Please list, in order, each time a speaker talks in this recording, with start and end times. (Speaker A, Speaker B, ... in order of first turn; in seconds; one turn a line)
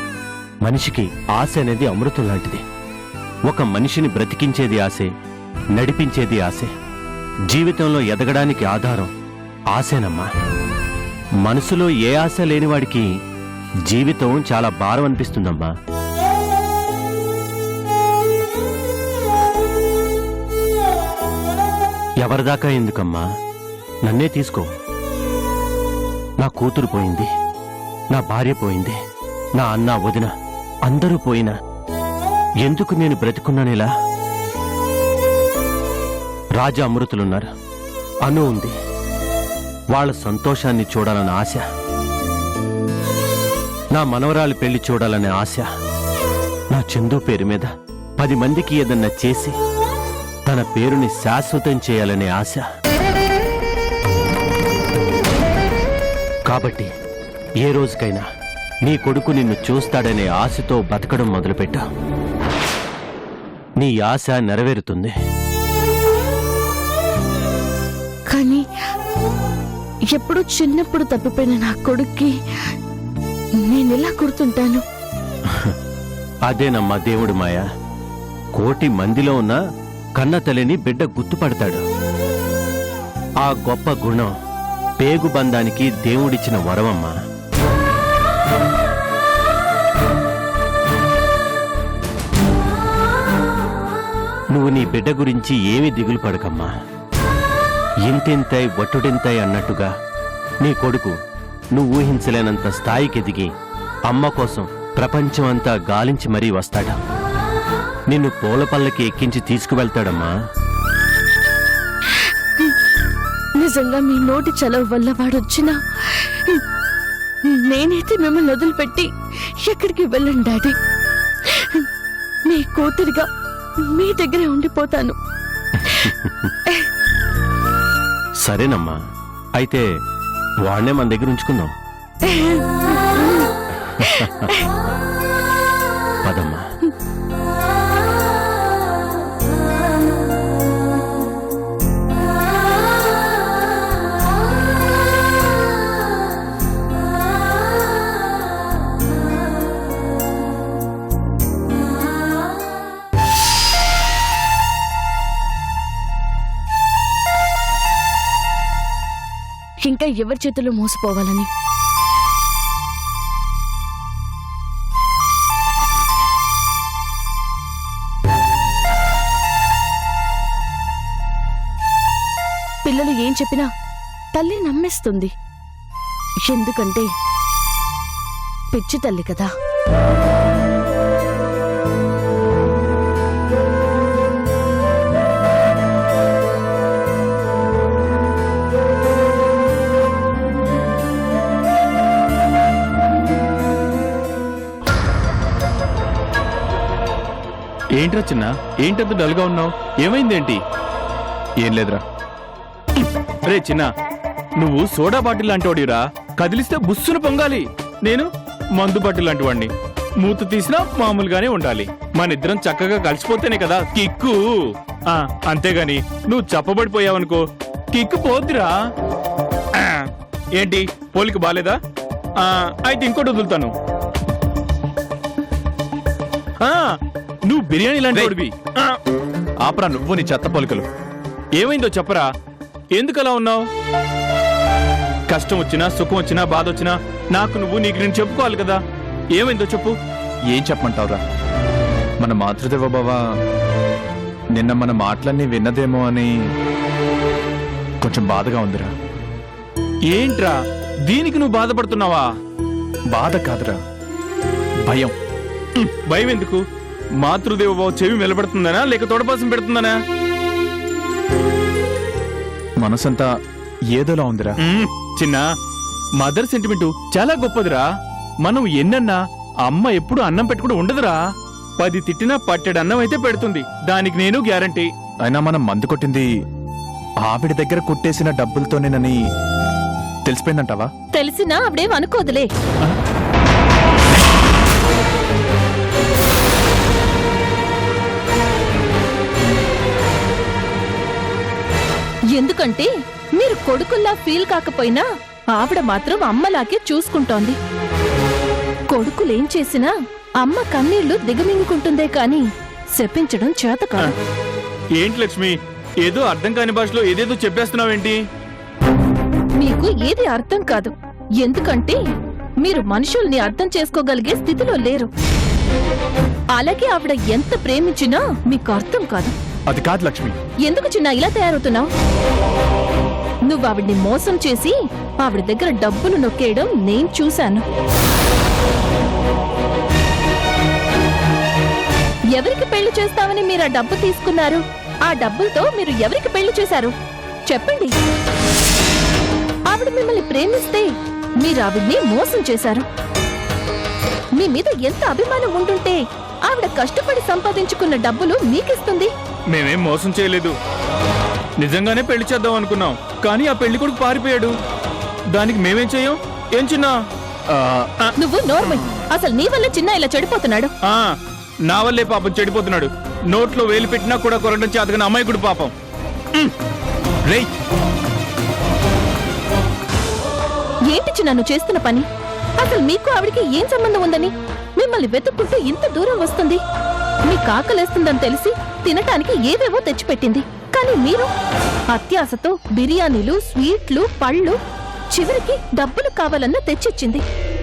Speaker A: 0.6-2.6
Speaker A: 3.5-5.1
Speaker A: 5.8-6.7
Speaker A: 7.5-9.1
Speaker A: 9.7-10.3
Speaker A: 11.4-13.1
Speaker A: 13.9-15.7
Speaker A: 22.2-23.2
Speaker A: 24.0-24.7
Speaker A: 26.4-27.3
Speaker A: 28.1-29.0
Speaker A: 29.6-30.3
Speaker A: 30.9-31.5
Speaker A: 32.6-33.9
Speaker A: 36.6-37.5
Speaker A: 38.2-38.7
Speaker A: 39.9-41.6
Speaker A: 43.9-45.6
Speaker A: 46.7-49.5
Speaker A: 50.5-52.6
Speaker A: 56.5-56.9
Speaker A: 57.6-58.2
Speaker A: 58.8-61.8
Speaker A: 63.8-65.1
Speaker B: 68.3-68.6
Speaker B: 70.1-72.3
Speaker B: 73.6-74.8
Speaker A: 76.5-77.6
Speaker A: 78.6-79.6
Speaker A: 80.2-81.8
Speaker A: 83.4-84.3
Speaker A: 85.0-87.1
Speaker A: 94.5-96.7
Speaker A: 98.0-99.9
Speaker A: 100.6-101.1
Speaker A: 101.7-103.5
Speaker A: 104.1-107.0
Speaker A: 108.1-110.3
Speaker B: 113.6-116.6
Speaker B: 117.5-119.1
Speaker B: 119.6-120.8
Speaker B: 121.5-121.9
Speaker B: 122.5-123.3
Speaker B: 123.8-125.2
Speaker A: 125.8-126.5
Speaker A: 128.4-129.0
Speaker A: 129.6-129.8
Speaker A: 130.7-131.7
Speaker B: 132.2-132.6
Speaker A: 133.8-134.5
Speaker B: 134.0-134.7
Speaker A: 136.2-136.6
Speaker B: 159.8-161.5
Speaker B: 172.8-173.7
Speaker B: 174.3-175.3
Speaker B: 176.4-177.1
Speaker B: 178.7-179.5
Speaker C: 197.9-200.6
Speaker D: 201.6-202.0
Speaker C: 203.0-203.9
Speaker C: 204.6-218.7
Speaker C: 219.7-221.8
Speaker C: 222.4-223.7
Speaker C: 226.6-229.0
Speaker D: 229.6-230.8
Speaker C: 231.6-232.3
Speaker C: 232.9-233.6
Speaker C: 235.3-238.8
Speaker C: 239.3-239.9
Speaker D: 240.5-241.2
Speaker D: 242.2-243.2
Speaker D: 244.5-246.3
Speaker D: 248.0-248.9
Speaker C: 250.1-252.3
Speaker D: 253.1-253.8
Speaker D: 254.8-255.1
Speaker C: 255.8-256.6
Speaker C: 257.2-259.9
Speaker D: 262.8-263.3
Speaker D: 263.9-264.6
Speaker C: 264.6-265.4
Speaker C: 266.2-267.8
Speaker C: 268.4-271.2
Speaker C: 271.8-274.9
Speaker D: 275.2-276.3
Speaker D: 277.2-279.2
Speaker D: 280.2-280.9
Speaker E: 281.1-282.5
Speaker E: 292.3-297.6
Speaker E: 298.9-304.1
Speaker C: 304.9-308.2
Speaker E: 309.6-312.0
Speaker E: 312.6-315.1
Speaker E: 316.5-319.3
Speaker D: 319.7-320.3
Speaker E: 320.6-321.9
Speaker E: 323.4-327.6
Speaker E: 332.3-336.9
Speaker E: 337.5-337.9
Speaker E: 339.7-342.9
Speaker E: 344.4-349.1
Speaker C: 349.5-350.5
Speaker C: 351.6-354.5
Speaker C: 355.3-356.9
Speaker C: 357.5-358.1
Speaker E: 358.2-360.7
Speaker C: 360.8-361.2
Speaker C: 361.7-365.7
Speaker D: 367.3-367.5
Speaker E: 370.9-372.1
Speaker E: 372.6-376.6
Speaker E: 377.2-381.3
Speaker E: 381.9-384.6
Speaker E: 385.1-387.2